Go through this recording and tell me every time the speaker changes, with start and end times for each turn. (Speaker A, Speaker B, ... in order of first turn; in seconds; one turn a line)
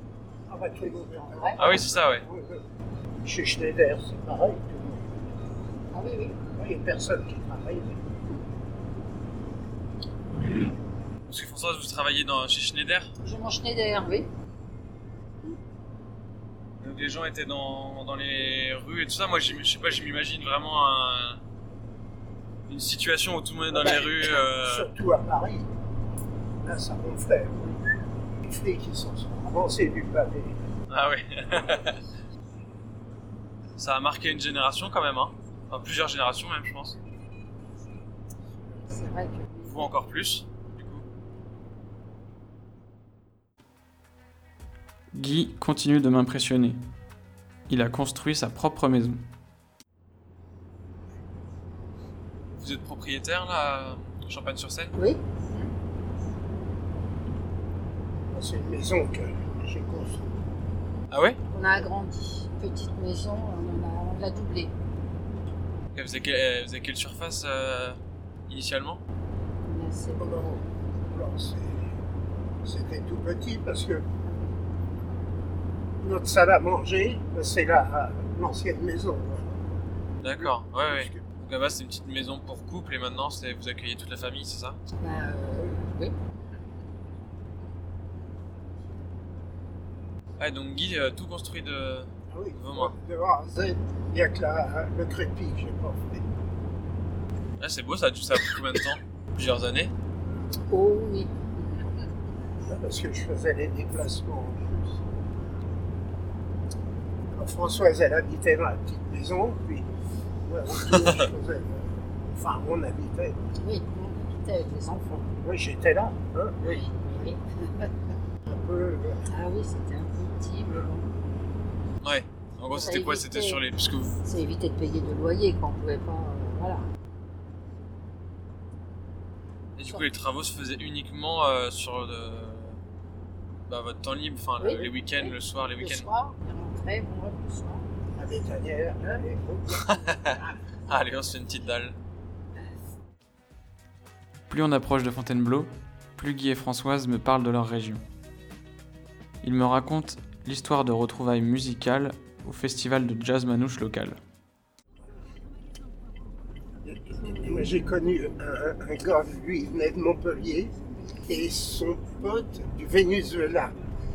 Speaker A: 0.5-5.1
Speaker B: 1.4-1.8
Speaker C: 1.6-2.3
Speaker B: 5.9-6.4
Speaker A: 6.5-8.0
Speaker C: 11.3-13.1
Speaker B: 13.2-14.3
Speaker C: 16.8-21.4
Speaker C: 22.7-24.9
Speaker A: 23.7-25.7
Speaker A: 26.6-27.7
Speaker A: 28.4-30.6
Speaker C: 30.9-32.0
Speaker C: 33.8-37.0
Speaker B: 38.9-40.0
Speaker C: 39.7-41.0
Speaker D: 45.1-46.8
Speaker D: 47.7-49.2
Speaker C: 52.6-54.9
Speaker B: 55.0-55.7
Speaker A: 58.3-60.4
Speaker C: 61.1-61.4
Speaker B: 61.5-64.7
Speaker C: 66.0-68.0
Speaker C: 68.5-69.0
Speaker B: 69.7-70.5
Speaker A: 70.2-72.0
Speaker A: 72.6-74.1
Speaker A: 76.0-79.6
Speaker C: 80.2-84.8
Speaker A: 80.2-81.2
Speaker B: 85.0-86.1
Speaker C: 90.4-93.0
Speaker A: 92.3-96.3
Speaker C: 97.6-99.9
Speaker B: 100.7-102.0
Speaker A: 102.6-105.0
Speaker A: 107.3-109.9
Speaker A: 110.4-113.4
Speaker B: 113.6-115.3
Speaker A: 115.3-117.3
Speaker B: 116.7-117.9
Speaker A: 118.4-119.3
Speaker B: 119.3-121.1
Speaker C: 122.0-124.2
Speaker B: 122.7-123.6
Speaker B: 124.2-126.9
Speaker C: 129.8-132.8
Speaker C: 133.7-136.1
Speaker B: 134.6-137.9
Speaker A: 138.2-140.6
Speaker C: 139.7-140.4
Speaker C: 140.9-142.0
Speaker D: 144.5-148.0
Speaker D: 149.4-154.2
Speaker A: 156.9-163.8